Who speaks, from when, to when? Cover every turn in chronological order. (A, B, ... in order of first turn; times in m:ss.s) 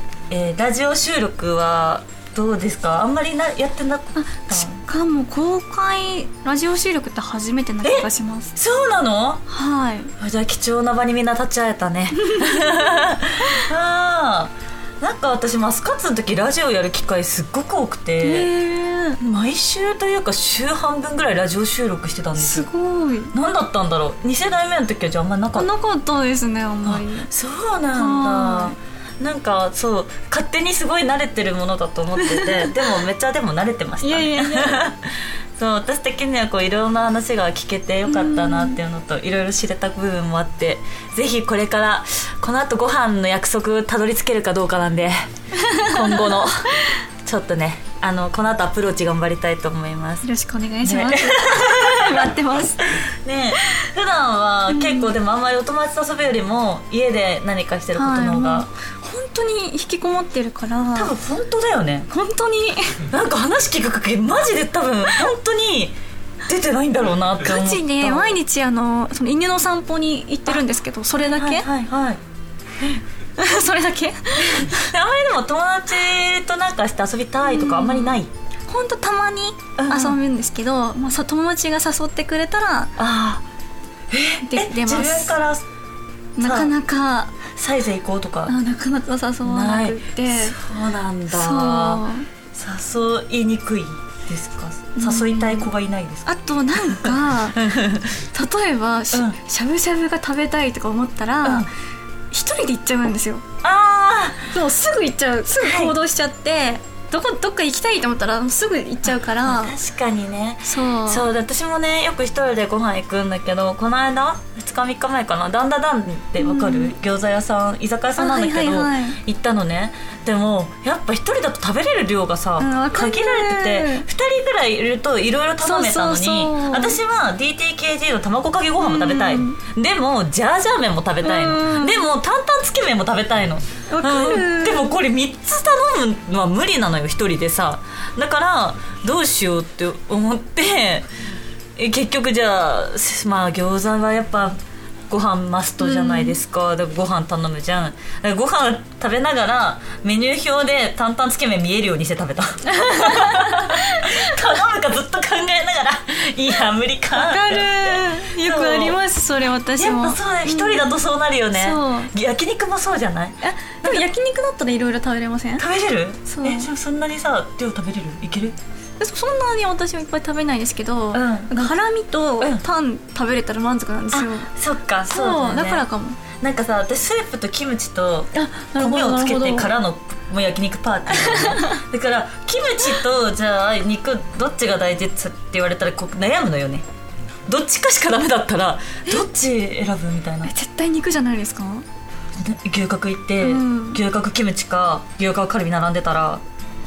0:00.3-0:04.8 A
0:04.2-0:08.5 B
0:07.8-0:09.4 A
0:09.5-0:10.1 B
0:10.2-0:18.5 A
0:12.2-0:12.9 B
0:18.2-0:19.2 B
0:19.2-0:22.7 A
0:22.4-0:23.4 B
0:23.3-0:25.7 A
0:25.6-0:27.3 B
0:26.8-0:50.3 A
0:27.9-0:28.8 B
0:32.2-0:32.8 B
0:34.0-0:34.9 B
0:38.1-0:38.8 B
0:45.6-0:46.0 B
0:50.2-0:52.9 B
0:50.8-0:52.3 A
0:52.9-0:58.7 A
0:54.7-0:55.1 B
0:58.0-1:01.2 B
1:01.0-1:02.1 A
1:02.1-1:03.0 B
1:03.1-1:08.4 A
1:07.4-1:11.7 B
1:11.3-1:12.2 A
1:13.4-1:14.8 B
1:14.5-1:18.3 A
1:17.4-1:22.9 B
1:19.8-1:20.2 A
1:23.0-1:23.4 A
1:24.1-1:25.6 A
1:24.4-1:25.3 B
1:26.4-1:27.4 B
1:26.4-1:26.7 A
1:27.6-1:28.6 A
1:28.5-1:30.6 B
1:29.4-1:38.2 A
1:31.3-1:32.3 B
1:35.0-1:35.7 B
1:36.3-1:37.7 B
1:38.3-1:41.7 B
1:39.1-1:39.4 A
1:42.3-1:43.5 B
1:43.6-1:44.5 A
1:44.5-1:49.8 B
1:45.6-1:46.0 A
1:49.4-2:21.1 A
1:50.7-1:51.3 B
1:56.4-1:57.0 B
1:58.2-1:59.2 B
2:02.6-2:04.1 B
2:05.6-2:07.0 B
2:08.8-2:09.6 B
2:11.2-2:12.1 B
2:13.9-2:15.0 B
2:21.8-2:24.6 A
2:25.1-2:39.0 A
2:25.8-2:26.4 B
2:32.7-2:34.4 B
2:37.1-2:41.0 B
2:39.8-2:44.1 A
2:41.6-2:42.1 B
2:43.4-2:45.7 B
2:45.6-2:48.6 A
2:46.3-2:46.7 B
2:49.0-2:54.5 B
2:51.1-2:51.7 A
2:54.1-2:55.8 A
2:55.1-2:56.2 B
2:56.4-3:06.8 A
2:58.3-2:59.7 B
3:01.2-3:01.8 B
3:07.5-3:10.5 A
3:10.4-3:11.8 B
3:12.4-3:16.4 A
3:13.4-3:14.0 B